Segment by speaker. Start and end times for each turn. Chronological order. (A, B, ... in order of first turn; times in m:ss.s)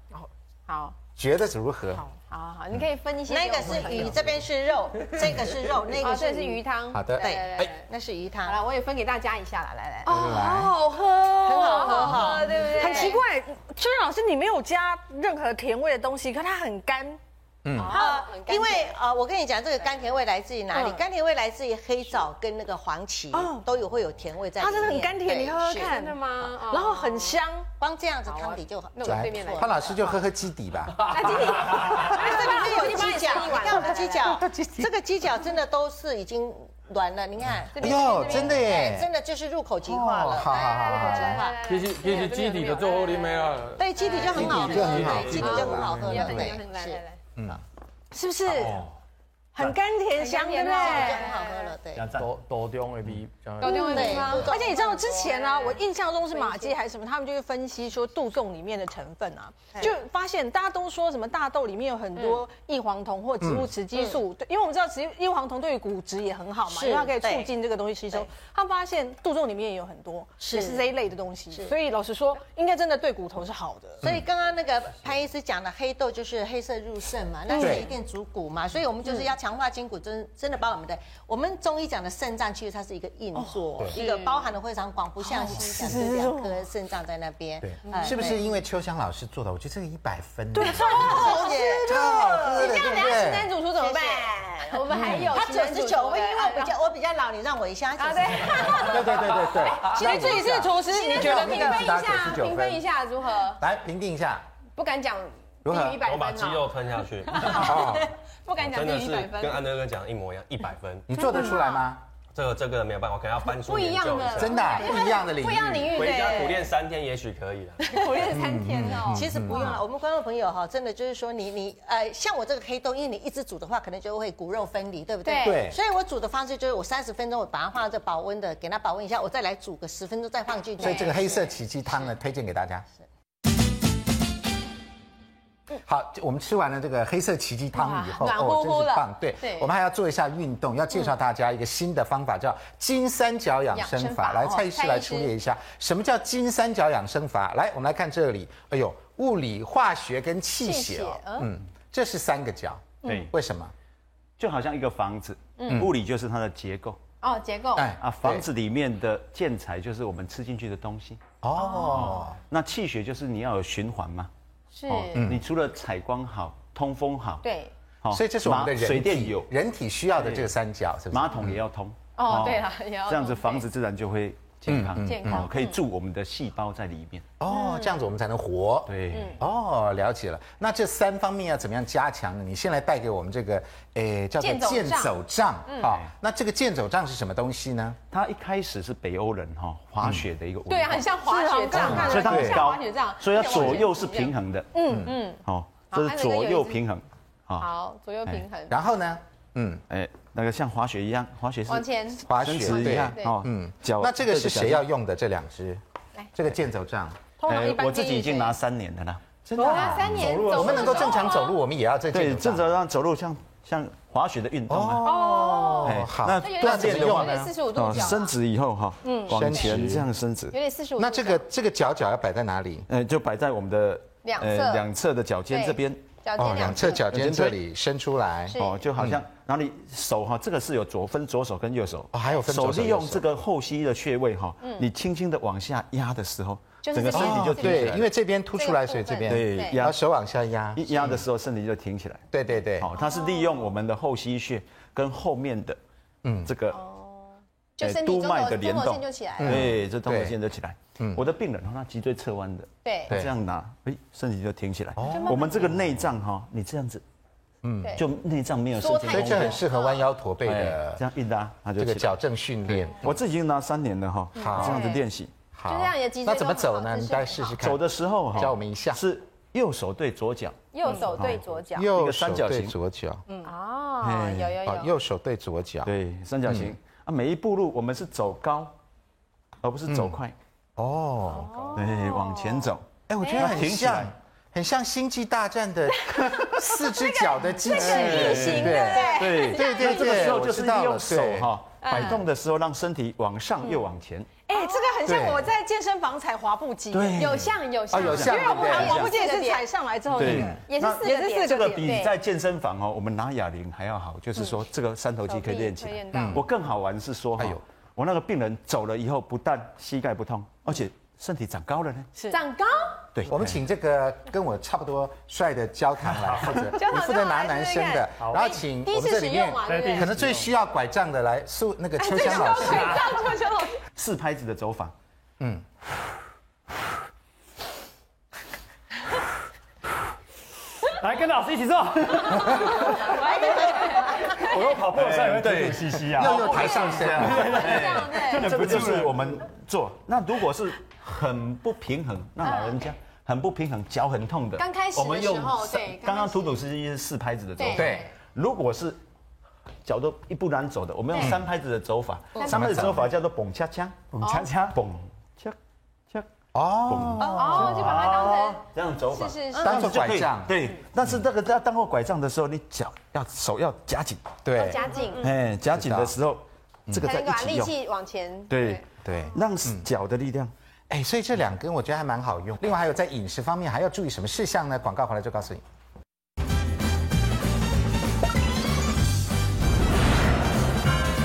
0:00.7-0:01.0 A
0:01.2-0:02.0 B
0:02.2-0:04.4 A
0:03.3-0:06.6 C
0:06.0-0:07.8 A
0:06.9-0:07.7 B
0:07.2-0:08.6 C
0:08.5-0:10.7 A
0:10.1-0:10.7 B
0:10.1-0:17.2 D
0:11.3-0:13.2 A
0:11.4-0:13.2 C
0:17.6-0:18.0 B
0:17.8-0:19.0 A
0:17.8-0:25.9 C
0:23.3-0:23.6 D
0:24.6-0:27.7 D
0:25.8-0:27.4 A
0:27.8-0:30.1 C
0:28.3-0:30.1 A
0:29.0-0:31.5 B
0:31.0-0:34.4 A
0:31.5-0:41.6 C
0:31.7-0:32.2 D
0:34.4-0:34.9 B
0:37.6-0:39.1 B
0:37.7-0:38.7 A
0:39.9-0:41.5 B
0:40.5-0:47.2 A
0:41.7-0:43.8 E
0:43.8-0:47.0 C
0:44.1-0:46.6 B
0:44.4-0:45.3 E
0:47.4-0:47.6 B
0:48.1-0:48.9 D
0:49.5-0:51.3 D
0:50.1-0:51.8 A
0:50.5-0:52.0 C
0:52.0-0:52.3 F
0:52.1-0:54.1 E
0:53.6-0:56.8 A
0:53.6-0:54.8 C
0:53.6-1:14.0 D
1:02.2-1:02.4 A
1:03.4-1:03.7 B
1:06.7-1:07.5 C
1:10.4-1:10.8 C
1:14.0-1:28.4 C
1:17.5-1:17.9 A
1:17.6-1:17.9 B
1:23.4-1:23.8 D
1:23.9-1:24.5 A
1:25.2-1:26.6 D
1:27.6-1:31.3 B
1:30.6-1:32.7 D
1:30.6-1:33.2 C
1:30.7-1:36.8 A
1:31.9-1:33.5 B
1:33.7-1:39.5 C
1:34.9-1:35.3 B
1:38.0-1:43.6 A
1:38.7-1:42.8 B
1:39.8-1:42.0 D
1:40.9-1:41.4 C
1:43.5-1:44.4 B
1:44.8-1:46.8 A
1:45.6-1:46.0 B
1:46.0-1:48.0 G
1:47.3-1:49.6 A
1:47.5-1:48.1 B
1:48.6-1:51.1 G
1:51.1-1:52.0 B
1:51.2-1:51.9 A
1:52.3-1:55.0 G
1:53.5-1:56.7 A
1:54.4-1:56.2 B
1:55.9-1:58.2 G
1:56.1-1:56.6 C
1:57.8-1:59.8 A
1:58.3-1:59.8 B
1:59.1-2:11.6 C
2:05.2-2:05.7 A
2:05.4-2:05.8 B
2:10.8-2:12.9 B
2:10.8-2:11.2 A
2:15.8-2:33.7 B
2:17.7-2:19.7 A
2:23.7-2:25.3 A
2:30.6-2:31.5 A
2:33.0-2:33.3 F
2:34.4-2:37.0 F
2:35.6-2:35.9 A
2:35.7-2:35.9 B
2:37.2-2:37.9 A
2:37.8-2:38.5 B
2:38.0-2:41.2 F
2:41.4-2:42.4 B
2:41.6-2:42.3 A
2:41.9-2:44.3 F
2:44.7-2:45.3 A
2:44.9-2:47.5 F
2:45.1-2:45.4 B
2:47.4-2:47.7 A
2:48.0-2:49.5 F
2:48.1-2:51.6 B
2:50.2-2:50.5 F
2:51.1-2:57.3 F
2:52.2-2:53.7 A
2:54.7-2:55.5 B
2:55.0-2:55.8 A
2:57.4-3:08.0 B
2:57.5-2:58.0 A
2:58.9-2:59.4 F
2:59.1-2:59.4 A
3:04.4-3:05.2 A
3:05.7-3:06.0 A
3:05.8-3:06.1 F
3:08.1-3:11.2 F
3:10.7-3:16.8 A
3:11.2-3:12.6 D
3:11.7-3:17.7 F
3:11.7-3:12.7 B
3:14.9-3:15.2 B
3:17.6-3:18.8 A
3:18.7-3:19.8 B
3:19.9-3:24.9 F
3:21.7-3:23.4 A
3:22.2-3:25.8 B
3:26.3-3:27.2 B
3:27.4-3:31.4 F
3:27.5-3:28.5 A
3:27.6-3:28.5 D
3:29.5-3:32.8 B
3:29.6-3:31.6 A
3:32.1-3:40.6 F
3:34.7-3:38.2 B
3:35.0-3:38.4 A
3:39.0-3:39.9 A
3:39.3-3:40.1 B
3:40.5-3:41.4 A
3:41.0-3:42.9 B
3:42.9-3:47.6 F
3:44.2-3:44.9 A
3:45.5-3:47.1 A
3:46.4-3:49.2 B
3:48.5-3:48.9 A
3:48.6-3:58.0 F
3:52.1-3:53.3 B
3:54.6-3:54.9 A
3:56.8-3:59.8 A
3:57.1-4:01.3 B
3:59.3-4:00.0 F
4:00.8-4:02.3 F
4:02.3-4:02.9 B
4:02.8-4:05.8 F
4:03.0-4:03.7 A
4:06.2-4:06.5 B
4:06.4-4:06.8 F
4:06.7-4:09.7 A
4:07.8-4:17.0 F
4:09.4-4:10.4 B
4:11.0-4:11.2 B
4:12.8-4:13.2 A
4:15.0-4:16.1 B
4:15.1-4:15.8 A
4:17.6-4:18.0 B
4:18.0-4:19.6 F
4:18.8-4:20.1 A
4:19.1-4:21.0 B
4:20.4-4:22.1 F
4:21.8-4:23.2 B
4:22.7-4:25.3 F
4:24.4-4:25.0 B
4:24.4-4:25.0 A
4:25.5-4:29.0 B
4:25.7-4:27.6 A
4:27.6-4:32.8 F
4:30.7-4:31.9 A
4:31.2-4:33.2 B
4:33.3-4:33.5 D
4:33.4-4:34.9 A
4:34.0-4:34.6 F
4:34.6-4:35.9 B
4:35.8-4:38.8 F
4:36.4-4:36.7 B
4:39.6-4:40.4 F
4:39.9-4:40.2 B
4:40.8-4:41.7 B
4:41.3-4:43.7 A
4:41.7-4:44.1 F
4:43.1-4:51.5 B
4:46.1-4:50.3 A
4:47.7-4:54.3 F
4:48.9-4:49.2 D
4:51.8-4:52.2 A
4:54.5-4:57.4 D
4:54.6-4:54.9 A
4:55.0-4:55.5 B
4:56.9-4:58.4 F
4:57.2-4:59.7 A
4:57.9-4:59.1 B
4:58.1-5:02.0 D
5:00.1-5:12.1 F
5:00.2-5:00.6 B
5:00.6-5:02.1 A
5:05.2-5:06.5 A
5:06.1-5:06.4 B
5:07.4-5:07.6 B
5:12.3-5:13.1 A
5:13.1-5:13.6 F
5:13.3-5:23.0 B
5:16.1-5:16.7 H
5:16.7-5:20.2 A
5:18.2-5:18.6 H
5:19.6-5:20.5 H
5:22.0-5:23.8 A
5:22.1-5:22.6 D
5:22.6-5:23.0 H
5:24.0-5:24.9 F
5:31.0-5:39.3 H
5:33.0-5:34.4 A
5:33.2-5:34.1 C
5:34.5-5:49.0 F
5:36.1-5:37.7 B
5:36.3-5:38.6 A
5:42.4-5:42.8 A
5:44.6-5:46.6 A
5:47.6-5:48.1 A
5:47.7-5:48.1 B
5:49.8-5:55.6 F
5:51.2-5:51.4 B
5:52.4-5:52.8 A
5:52.5-5:53.1 B
5:54.2-5:54.5 H
5:54.2-5:54.5 A
5:56.5-5:58.2 B
5:56.9-6:04.3 F
5:57.2-5:57.6 C
5:57.3-5:59.9 A
5:59.6-6:01.2 B
6:04.4-6:05.0 B
6:04.5-6:05.4 A
6:05.2-6:07.8 F
6:05.7-6:06.2 B
6:06.9-6:07.3 B
6:07.0-6:08.8 A
6:08.5-6:10.5 F
6:09.0-6:09.9 B
6:10.9-6:15.6 B